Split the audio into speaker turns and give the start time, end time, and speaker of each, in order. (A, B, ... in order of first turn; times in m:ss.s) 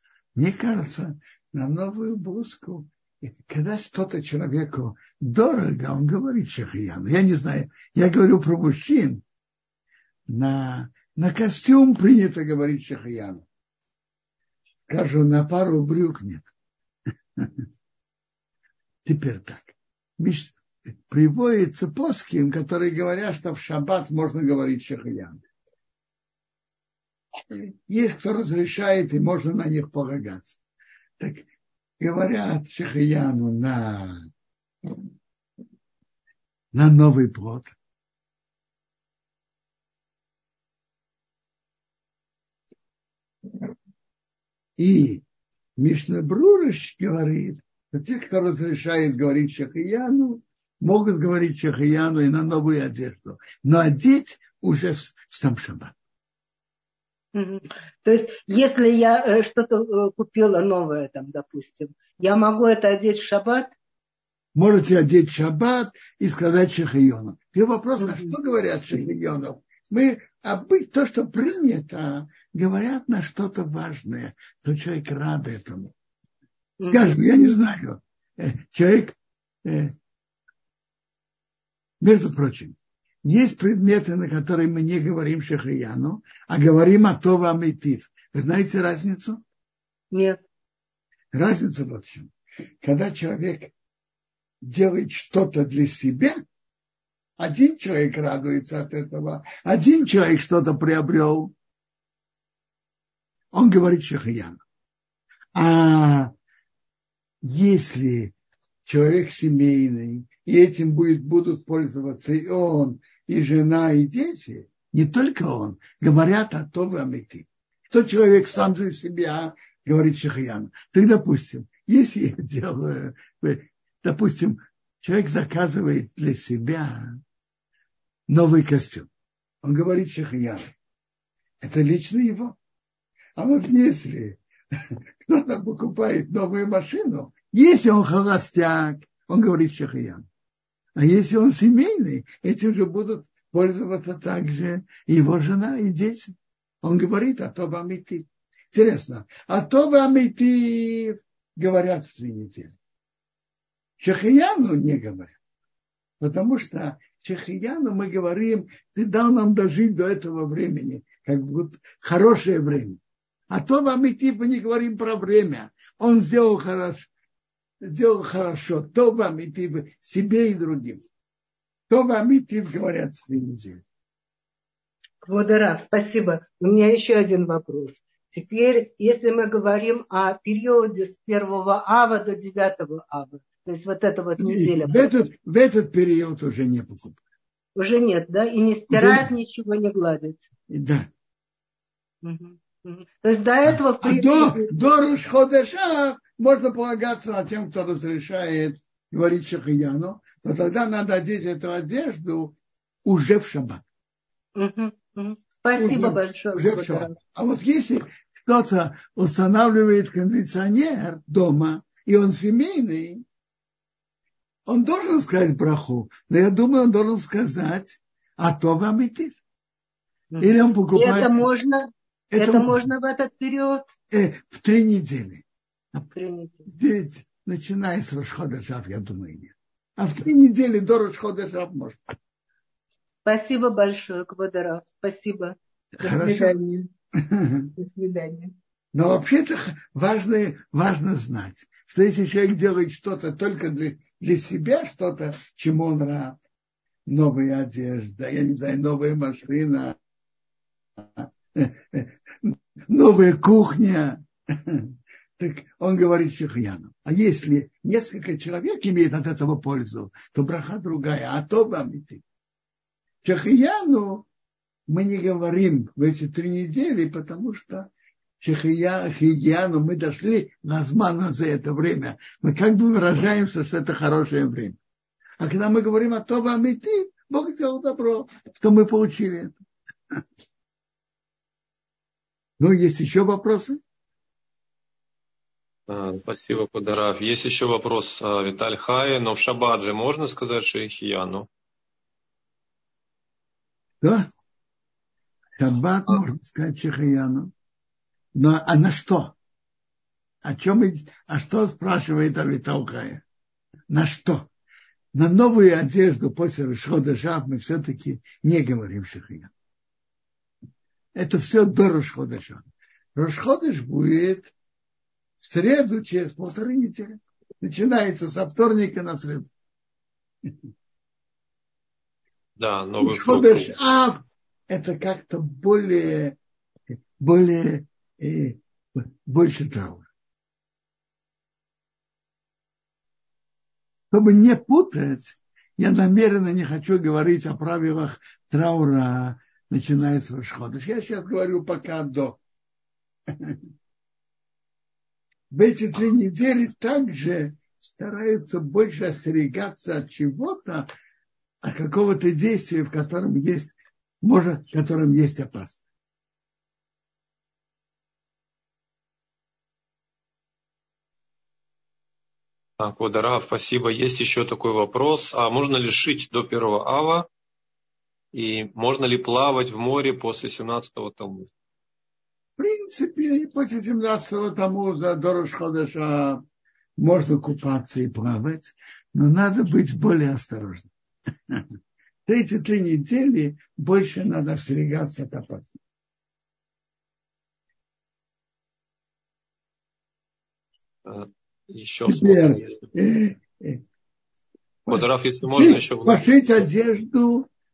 0:00.4-0:09.2 A
0:10.3-0:13.4 A
0:14.9-0:16.5 A
0:17.4-0:17.6 A
0:19.0-0:25.4 A
0:27.4-0:30.6 A
0:31.2-0:31.5 A
0:32.0-0:34.3 A
0:36.7-0:37.7 A
0:44.8-0:45.2 A
0:45.8-0:56.0 A
0:57.3-1:03.7 B
1:04.6-1:15.9 A
1:08.0-1:08.3 B
1:16.8-1:17.2 B
1:16.8-1:19.9 A
1:22.0-1:29.4 A
1:30.1-1:30.4 B
1:31.3-1:33.7 A
1:34.6-1:36.4 A
1:37.4-1:41.5 A
1:43.5-1:44.6 A
1:45.6-1:46.3 A
1:47.4-1:48.3 A
1:48.9-2:07.2 A
2:08.3-2:09.1 A
2:09.6-2:10.7 A
2:11.6-2:12.6 A
2:13.4-2:20.2 A
2:21.0-2:32.7 A
2:34.0-2:35.3 A
2:36.2-2:43.0 A
2:43.5-2:47.1 A
2:47.8-2:51.0 A
2:51.9-2:53.8 A
2:55.2-3:05.1 B
3:04.4-3:07.2 A
3:07.8-3:10.4 B
3:08.9-3:09.3 A
3:10.7-3:11.1 A
3:12.2-3:14.7 B
3:13.6-3:23.8 A
3:24.6-3:27.2 B
3:25.7-3:33.2 A
3:34.7-3:39.4 A
3:40.3-3:43.9 B
3:40.4-3:41.4 A
3:42.3-3:42.9 A
3:44.1-3:46.1 A
3:46.1-3:46.6 B
3:46.6-3:52.1 A
3:53.2-3:56.9 B
3:56.0-3:56.6 A
3:57.2-3:57.7 A
3:57.8-3:58.5 B
3:58.9-4:06.4 A
4:07.1-4:10.0 A
4:11.0-4:22.2 A
4:23.2-4:24.3 A
4:24.9-4:34.8 A
4:35.4-4:39.6 A
4:42.6-4:43.8 A
4:45.9-4:51.5 C
4:54.0-4:54.3 A
4:55.6-4:57.5 A
4:58.3-4:59.4 A
5:00.4-5:03.2 A
5:03.9-5:04.5 A
5:05.1-5:09.5 A
5:11.1-5:12.6 A
5:13.2-5:14.5 A
5:15.4-5:19.5 A
5:22.6-5:23.7 C
5:23.0-5:26.4 A
5:27.2-5:30.1 A
5:34.1-5:42.4 A
5:43.3-5:43.6 A
5:45.5-5:50.9 A
5:51.6-5:55.8 A
6:02.8-6:07.3 C
6:08.3-6:11.5 C
6:12.6-6:16.4 A
6:17.0-6:20.9 A
6:22.2-6:25.8 A
6:31.0-6:32.8 C
6:32.1-6:33.8 A
6:34.9-6:37.5 A
6:34.9-6:36.3 C